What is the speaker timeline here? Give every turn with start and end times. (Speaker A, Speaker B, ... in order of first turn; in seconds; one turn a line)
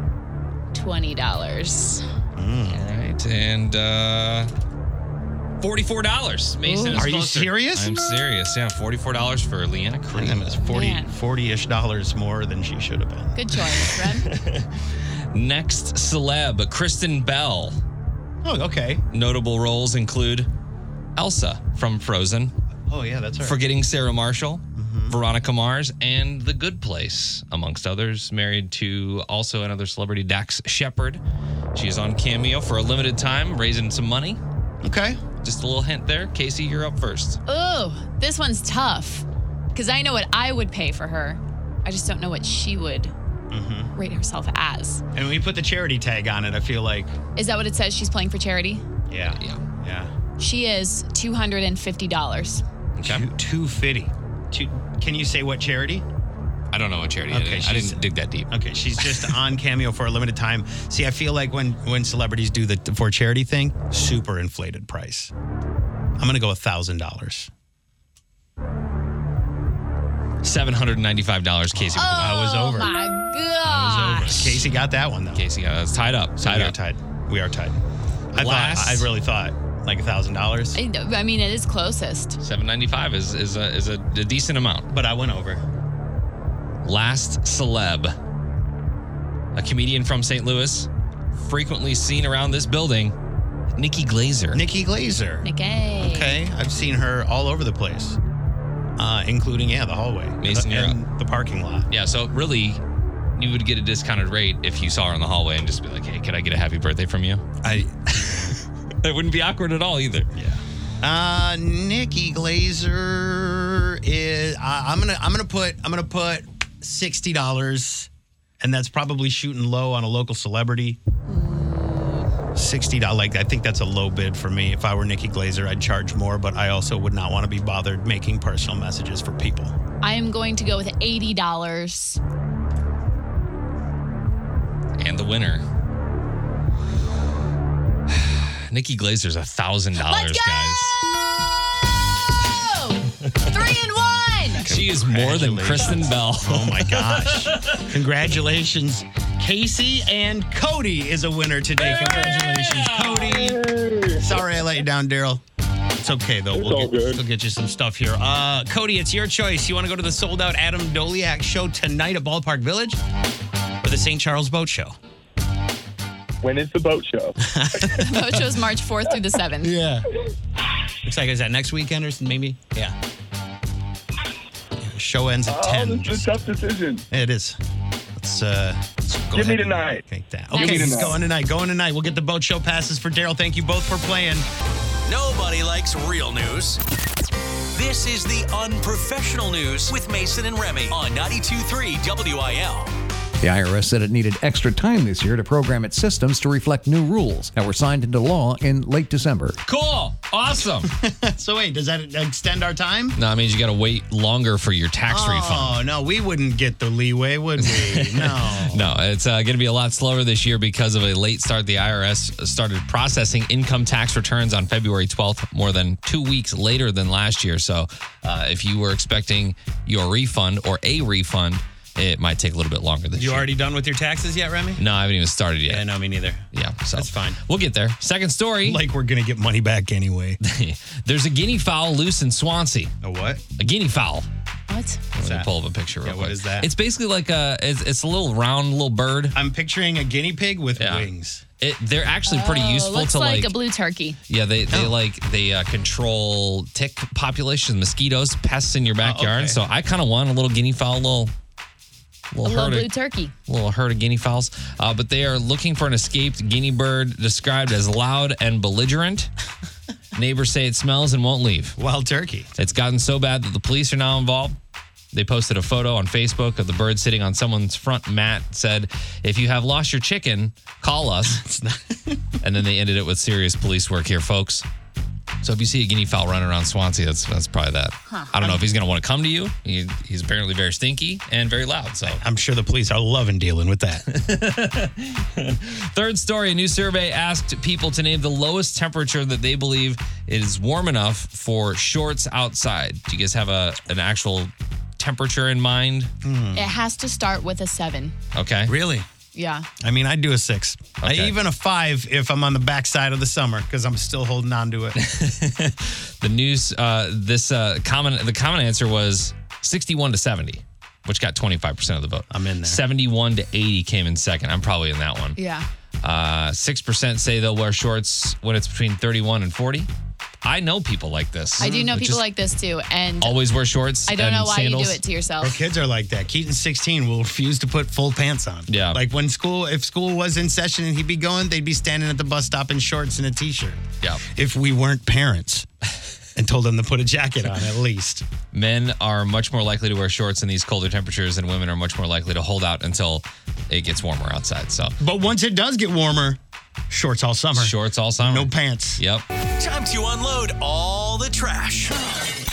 Speaker A: 0.7-2.0
Speaker B: 2.3-2.8
Speaker C: 2.7-4.5
Speaker C: 5.6-10.6
Speaker A: 6.6-7.0
Speaker B: 6.9-8.0
Speaker B: 10.1-13.4
Speaker A: 10.6-11.1
Speaker A: 13.3-14.3
Speaker C: 14.2-14.7
Speaker C: 15.3-17.8
Speaker B: 18.4-19.0
Speaker C: 19.1-20.5
Speaker C: 21.1-22.5
Speaker B: 22.9-23.6
Speaker C: 23.4-31.2
Speaker B: 24.8-25.2
Speaker C: 31.7-34.4
Speaker B: 34.8-35.2
Speaker C: 35.4-37.4
Speaker A: 37.5-43.1
Speaker B: 43.5-43.9
Speaker A: 43.9-45.0
Speaker B: 45.1-47.1
Speaker A: 47.4-48.8
Speaker B: 49.1-50.1
Speaker A: 50.4-52.6
Speaker C: 53.0-53.2
Speaker B: 53.0-56.0
Speaker C: 56.7-59.4
Speaker B: 57.3-65.3
Speaker B: 66.2-67.5
Speaker C: 70.4-72.4
Speaker B: 71.7-73.1
Speaker A: 71.9-74.5
Speaker B: 73.6-75.5
Speaker C: 74.3-74.6
Speaker C: 75.3-76.7
Speaker B: 76.4-77.8
Speaker B: 78.3-80.8
Speaker C: 78.3-79.1
Speaker A: 80.7-82.4
Speaker C: 82.4-84.9
Speaker B: 84.9-85.6
Speaker C: 86.8-88.1
Speaker C: 89.5-93.1
Speaker C: 93.8-94.6
Speaker B: 94.5-98.2
Speaker A: 95.4-96.4
Speaker B: 99.0-101.9
Speaker C: 100.4-101.0
Speaker C: 101.9-102.8
Speaker C: 103.4-107.4
Speaker B: 107.6-108.5
Speaker C: 109.0-110.3
Speaker B: 110.3-118.1
Speaker B: 118.6-121.0
Speaker A: 121.3-122.3
Speaker B: 122.5-129.7
Speaker A: 130.0-132.2
Speaker C: 135.0-135.6
Speaker C: 138.1-141.0
Speaker A: 140.0-144.7
Speaker B: 144.6-155.4
Speaker C: 144.6-147.9
Speaker C: 151.8-153.4
Speaker D: 153.4-154.2
Speaker B: 156.0-163.0
Speaker D: 156.5-157.2
Speaker B: 163.8-164.9
Speaker D: 166.4-167.9
Speaker B: 167.4-168.4
Speaker A: 167.9-169.7
Speaker B: 169.6-170.1
Speaker B: 171.0-172.9
Speaker B: 174.8-176.4
Speaker D: 175.5-177.0
Speaker B: 177.1-177.6
Speaker B: 178.2-184.5
Speaker D: 179.3-180.0
Speaker A: 180.5-181.2
Speaker D: 180.5-181.2
Speaker E: 185.1-186.8
Speaker E: 187.7-192.9
Speaker F: 193.4-199.6
Speaker C: 199.6-200.9
Speaker B: 200.8-203.2
Speaker C: 203.2-205.8
Speaker B: 205.1-208.9
Speaker C: 207.6-223.5
Speaker B: 223.1-224.8
Speaker C: 224.8-225.9
Speaker B: 225.7-227.4
Speaker C: 226.5-228.8
Speaker B: 228.6-230.4
Speaker C: 230.4-232.9
Speaker B: 233.0-233.4
Speaker C: 233.6-234.3
Speaker A: 234.7-235.0
Speaker C: 235.1-239.3
Speaker B: 235.2-235.5
Speaker B: 236.0-236.7
Speaker B: 239.3-241.4
Speaker C: 240.8-243.5
Speaker A: 242.3-244.2
Speaker C: 244.3-251.3
Speaker B: 244.7-244.9
Speaker B: 249.0-249.6
Speaker C: 252.3-252.9
Speaker A: 252.4-253.3
Speaker C: 253.4-259.3
Speaker C: 260.1-261.8
Speaker B: 261.8-262.5
Speaker C: 262.6-264.6
Speaker C: 265.1-271.4
Speaker B: 271.3-272.3
Speaker C: 272.4-274.6
Speaker C: 275.4-282.2
Speaker B: 278.4-278.6
Speaker B: 282.1-284.1
Speaker C: 284.1-296.1
Speaker B: 296.2-296.7
Speaker A: 296.5-298.1
Speaker C: 298.3-298.7
Speaker B: 298.6-299.1
Speaker A: 299.3-299.7
Speaker B: 299.8-305.0
Speaker C: 301.0-301.3
Speaker C: 305.0-315.4
Speaker B: 312.3-312.8
Speaker A: 315.4-315.6
Speaker C: 316.0-319.9
Speaker C: 320.4-322.2
Speaker B: 321.6-322.0
Speaker A: 321.6-323.4
Speaker C: 323.2-325.0
Speaker A: 324.1-325.6
Speaker B: 325.4-335.7
Speaker C: 328.7-329.0
Speaker B: 336.4-338.2
Speaker C: 338.5-344.9
Speaker B: 345.0-349.0
Speaker C: 347.6-349.2
Speaker E: 349.6-351.9